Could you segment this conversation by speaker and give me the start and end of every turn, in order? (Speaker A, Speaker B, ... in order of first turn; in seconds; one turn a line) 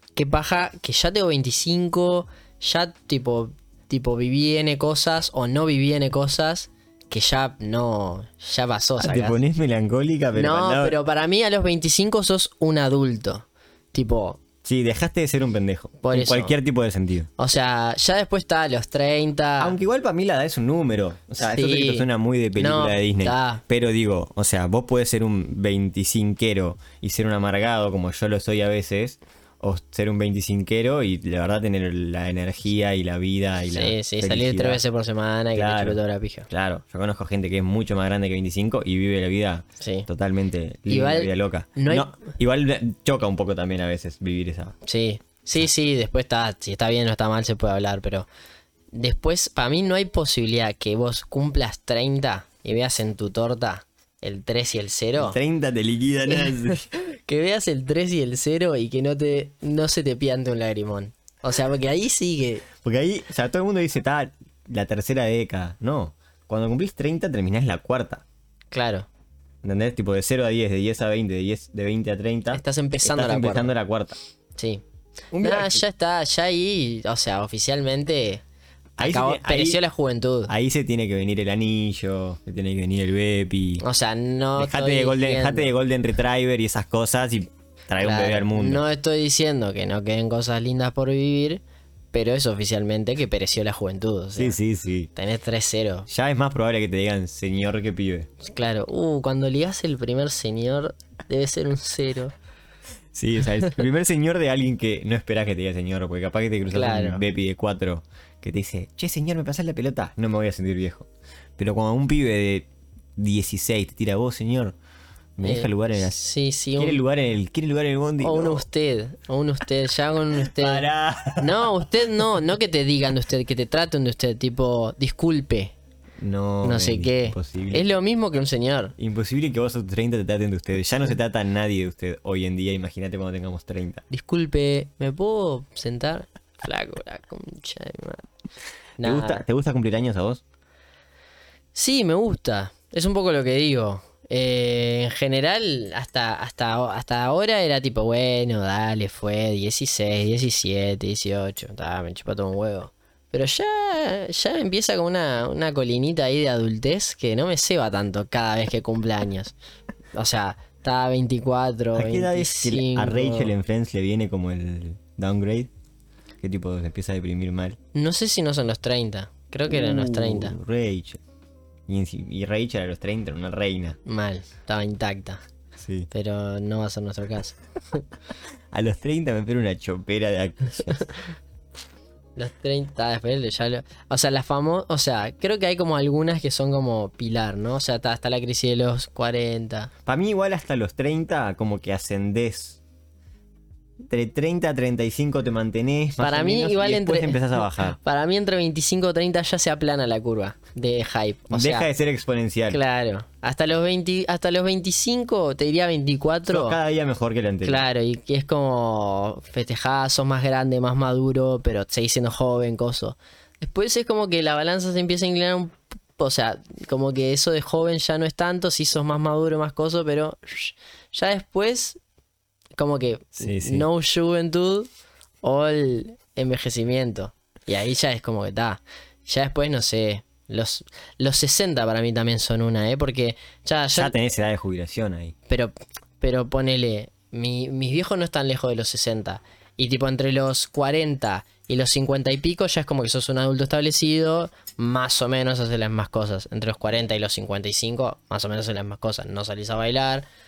Speaker A: 0.1-9.4
Speaker B: 9.0-11.0
Speaker A: 10.3-14.4
Speaker B: 14.6-17.3
Speaker A: 16.0-16.6
Speaker A: 17.4-19.8
Speaker B: 19.6-34.8
Speaker A: 21.4-23.6
Speaker A: 33.7-36.5
Speaker B: 35.5-36.0
Speaker B: 36.5-44.8
Speaker A: 39.8-40.1
Speaker A: 40.9-42.1
Speaker A: 44.8-48.3
Speaker A: 48.9-55.4
Speaker B: 55.2-56.9
Speaker A: 56.3-62.7
Speaker B: 62.8-68.2
Speaker A: 68.7-69.1
Speaker B: 69.6-74.2
Speaker A: 72.5-73.7
Speaker A: 74.6-74.8
Speaker B: 75.3-75.8
Speaker A: 75.4-78.4
Speaker B: 79.0-79.8
Speaker A: 79.0-80.5
Speaker B: 80.5-83.8
Speaker A: 83.8-85.7
Speaker B: 84.6-88.8
Speaker A: 88.0-94.6
Speaker B: 94.4-95.1
Speaker A: 95.2-96.1
Speaker B: 96.1-98.3
Speaker A: 98.4-102.3
Speaker B: 103.1-114.8
Speaker A: 106.7-107.2
Speaker B: 115.4-116.2
Speaker A: 115.4-117.0
Speaker B: 116.8-118.7
Speaker A: 118.2-125.7
Speaker B: 120.4-121.9
Speaker B: 126.2-127.9
Speaker A: 126.6-128.9
Speaker B: 129.0-134.0
Speaker A: 134.1-138.2
Speaker A: 139.0-139.4
Speaker B: 139.0-140.4
Speaker A: 141.7-159.6
Speaker A: 160.1-163.5
Speaker B: 161.9-165.7
Speaker B: 166.4-167.8
Speaker A: 167.9-170.6
Speaker B: 169.7-171.2
Speaker B: 171.9-174.0
Speaker A: 174.1-175.4
Speaker B: 175.8-176.1
Speaker A: 176.1-178.1
Speaker B: 178.7-181.1
Speaker A: 182.4-189.9
Speaker B: 190.1-192.8
Speaker B: 194.1-198.0
Speaker A: 196.2-201.9
Speaker B: 201.5-202.8
Speaker A: 202.7-206.8
Speaker B: 206.5-207.8
Speaker A: 207.6-222.0
Speaker A: 222.8-224.9
Speaker B: 223.4-223.9
Speaker A: 225.4-234.2
Speaker B: 233.9-235.3
Speaker A: 235.5-250.3